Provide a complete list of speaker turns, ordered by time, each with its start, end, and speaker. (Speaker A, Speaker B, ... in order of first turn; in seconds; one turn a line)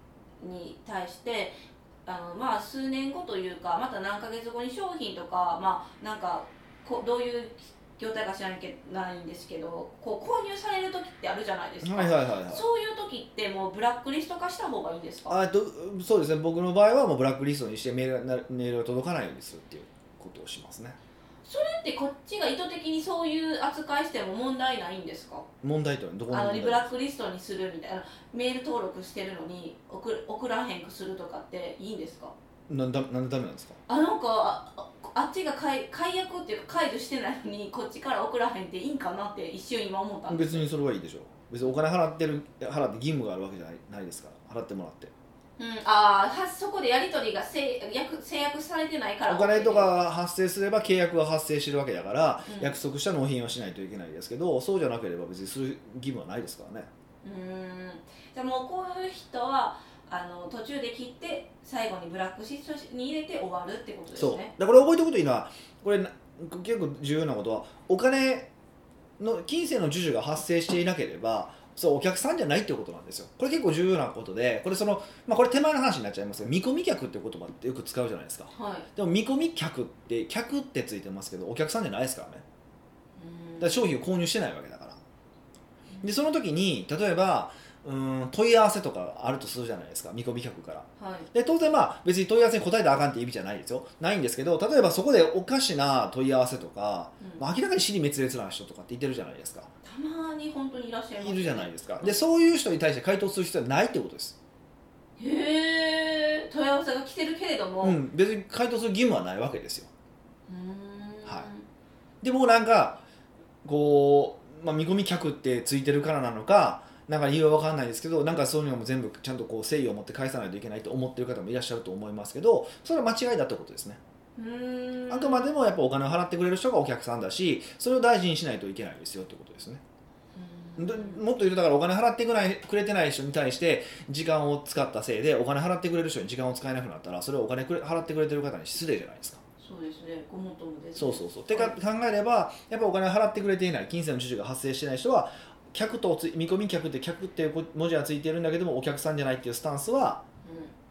Speaker A: 0.4-15.4
Speaker B: 11.8-12.6
Speaker B: 15.3-21.0
Speaker A: 21.4-25.5
Speaker B: 25.6-26.9
Speaker A: 26.3-32.3
Speaker B: 32.7-33.8
Speaker A: 33.9-40.6
Speaker B: 40.3-45.1
Speaker A: 45.6-49.9
Speaker B: 49.3-56.9
Speaker A: 52.5-52.8
Speaker A: 57.2-64.5
Speaker B: 64.1-68.5
Speaker B: 69.2-82.4
Speaker A: 78.5-78.9
Speaker A: 83.2-83.9
Speaker B: 83.6-85.0
Speaker B: 86.0-99.7
Speaker A: 91.0-91.3
Speaker A: 99.8-102.2
Speaker B: 101.2-104.4
Speaker A: 105.2-108.0
Speaker B: 107.8-109.9
Speaker A: 110.5-111.7
Speaker B: 112.2-113.0
Speaker B: 113.6-124.0
Speaker A: 124.3-125.5
Speaker B: 125.1-129.8
Speaker A: 130.3-131.2
Speaker B: 130.8-139.4
Speaker A: 139.6-141.8
Speaker B: 140.9-150.2
Speaker A: 150.4-150.7